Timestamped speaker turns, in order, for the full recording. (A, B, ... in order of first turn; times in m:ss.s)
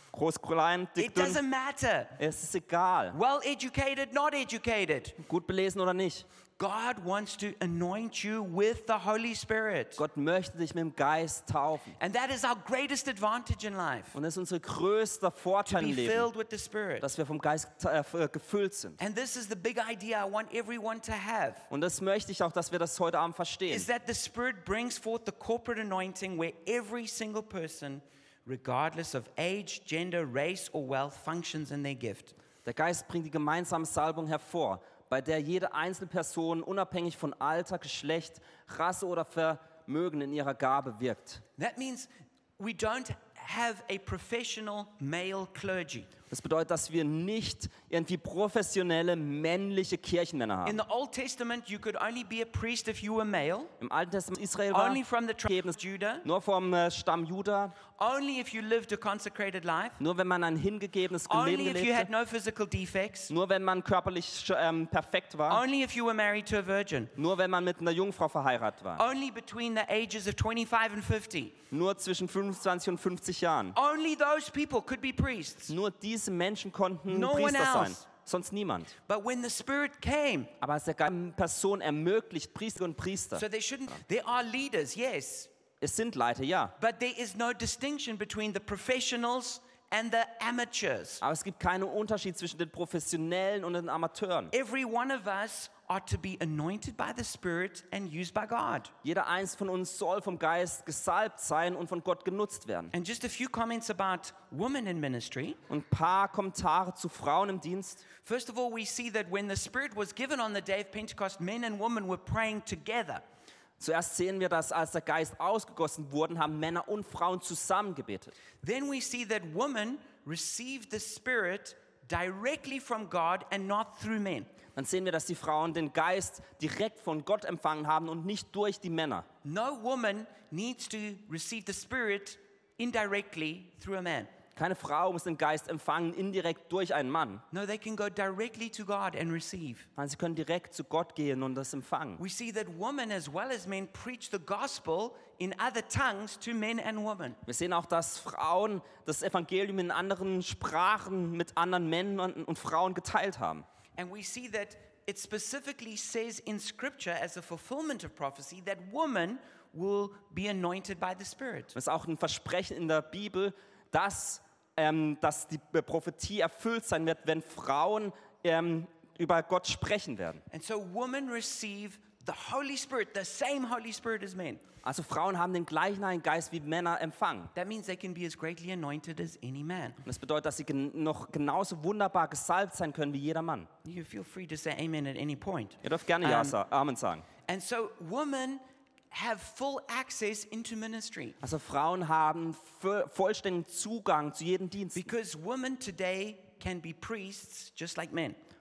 0:00.1-0:01.4 A
0:01.0-0:02.2 B
0:02.2-0:03.2 A
0:03.1-0:05.2 B
0:05.2-0:06.2 A
0:06.6-0:10.0 B
0:10.0-0:12.0 A
0:12.0-0:14.2 B
0:14.1-0:16.3 A
0:15.6-0:17.1 B
0:17.0-0:19.0 A
0:19.0-0:21.7 B
0:21.7-0:23.9 A
0:23.7-0:32.3 B
0:32.6-0:41.4 A
0:41.6-0:46.1 B
0:46.3-0:50.8 A
0:50.6-0:53.7 B
0:53.8-0:57.8 A
0:54.7-0:56.2 B
0:58.0-1:00.0 B
1:00.0-1:02.1 A
1:01.3-1:03.3 B
1:03.3-1:05.6 A
1:05.5-1:07.1 B
1:07.2-1:09.0 A
1:09.0-1:11.6 B
1:11.7-1:13.8 A
1:13.7-1:15.7 B
1:15.7-1:18.9 A
1:17.1-1:18.0 B
1:19.0-1:20.5 B
1:20.6-1:23.4 A
1:23.3-1:25.5 B
1:25.8-1:26.7 A
1:26.8-1:31.2 B
1:31.2-1:34.5 A
1:34.5-1:38.9 B
1:39.0-1:42.9 A
1:42.9-1:45.6 B
1:45.7-1:48.0 A
1:48.2-1:53.2 B
1:53.8-1:58.4 A
1:58.6-2:04.5 B
2:04.7-2:09.2 A
2:09.4-2:14.3 B
2:14.6-2:17.4 A
2:17.5-2:19.9 B
2:20.0-2:22.2 A
2:22.2-2:27.4 B
2:27.4-2:33.6 A
2:34.0-2:41.8 B
2:41.7-2:50.4 A
2:50.5-2:54.6 B
2:54.8-2:57.5 A
2:57.5-3:00.0 B
3:00.0-3:03.7 A
3:03.8-3:06.6 B
3:05.8-3:07.2 A
3:07.4-3:11.4 B
3:11.4-3:15.1 A
3:14.9-3:18.4 B